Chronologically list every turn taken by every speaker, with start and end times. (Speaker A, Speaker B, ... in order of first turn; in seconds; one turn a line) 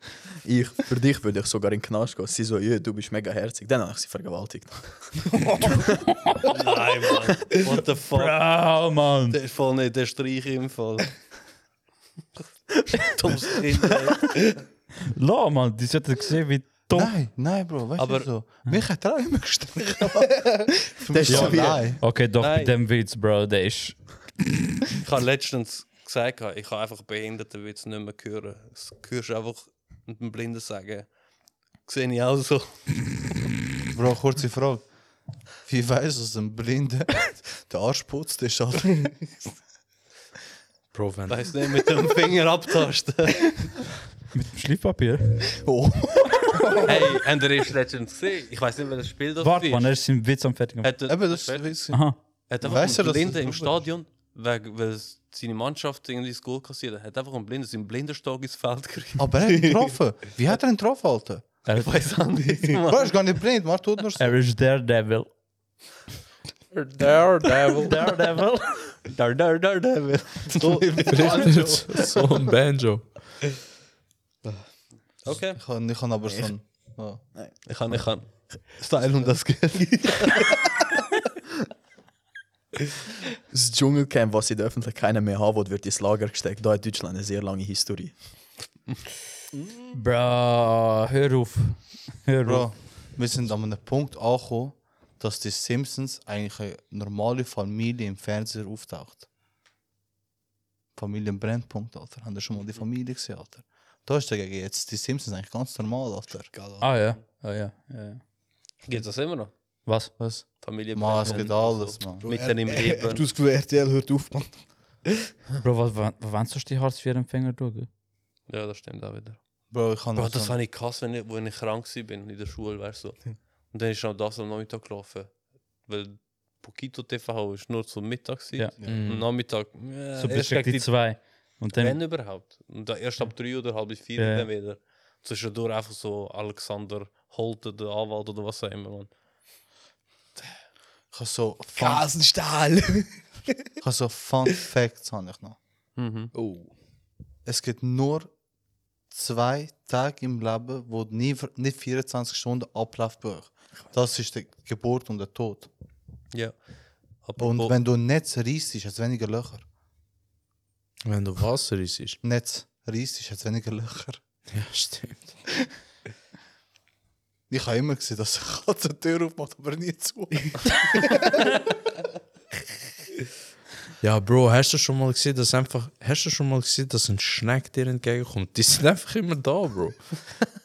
Speaker A: 0.4-5.1
Speaker B: 6.2-6.5
Speaker C: 6.5-11.3
Speaker B: 8.1-9.4
Speaker C: 13.1-14.6
Speaker B: 15.1-17.2
Speaker D: 16.9-22.0
Speaker C: 18.0-18.3
Speaker A: 21.1-21.9
Speaker B: 21.3-24.2
Speaker C: 22.4-22.7
Speaker C: 25.0-31.1
Speaker C: 31.8-33.0
Speaker D: 33.9-34.9
Speaker D: 35.6-39.3
Speaker E: 40.9-41.4
Speaker C: 41.3-43.8
Speaker B: 44.3-45.6
Speaker D: 45.6-46.9
Speaker C: 46.8-49.9
Speaker B: 49.4-51.1
Speaker C: 50.8-59.3
Speaker D: 51.1-53.9
Speaker B: 51.9-52.2
Speaker D: 59.2-61.6
Speaker F: 59.5-59.9
Speaker B: 61.6-62.4
Speaker C: 61.8-63.1
Speaker D: 62.9-64.4
Speaker B: 64.2-65.3
Speaker E: 66.7-68.0
Speaker B: 67.7-69.0
Speaker C: 69.0-72.2
Speaker E: 71.0-73.4
Speaker C: 75.2-75.6
Speaker D: 75.3-77.2
Speaker A: 76.2-76.5
Speaker A: 77.3-77.7
Speaker C: 77.7-80.5
Speaker A: 83.5-88.2
Speaker B: 89.9-92.8
Speaker D: 92.4-99.2
Speaker D: 101.0-106.5
Speaker F: 106.3-107.1
Speaker B: 106.8-108.2
Speaker C: 108.8-109.5
Speaker B: 109.8-110.2
Speaker D: 110.2-112.3
Speaker C: 110.6-113.2
Speaker F: 112.3-115.0
Speaker B: 115.6-117.9
Speaker C: 118.5-119.4
Speaker D: 119.7-120.5
Speaker C: 120.1-139.1
Speaker E: 128.8-129.3
Speaker B: 130.1-132.3
Speaker B: 134.1-134.5
Speaker D: 141.1-142.1
Speaker F: 141.8-143.2
Speaker D: 143.8-145.6
Speaker C: 145.9-146.3
Speaker F: 146.3-146.7
Speaker D: 147.4-148.3
Speaker D: 149.1-155.7
Speaker C: 156.3-157.7
Speaker D: 157.4-159.7
Speaker E: 161.1-162.2
Speaker D: 162.2-164.2
Speaker E: 164.5-165.3
Speaker D: 167.5-171.0
Speaker E: 174.0-180.2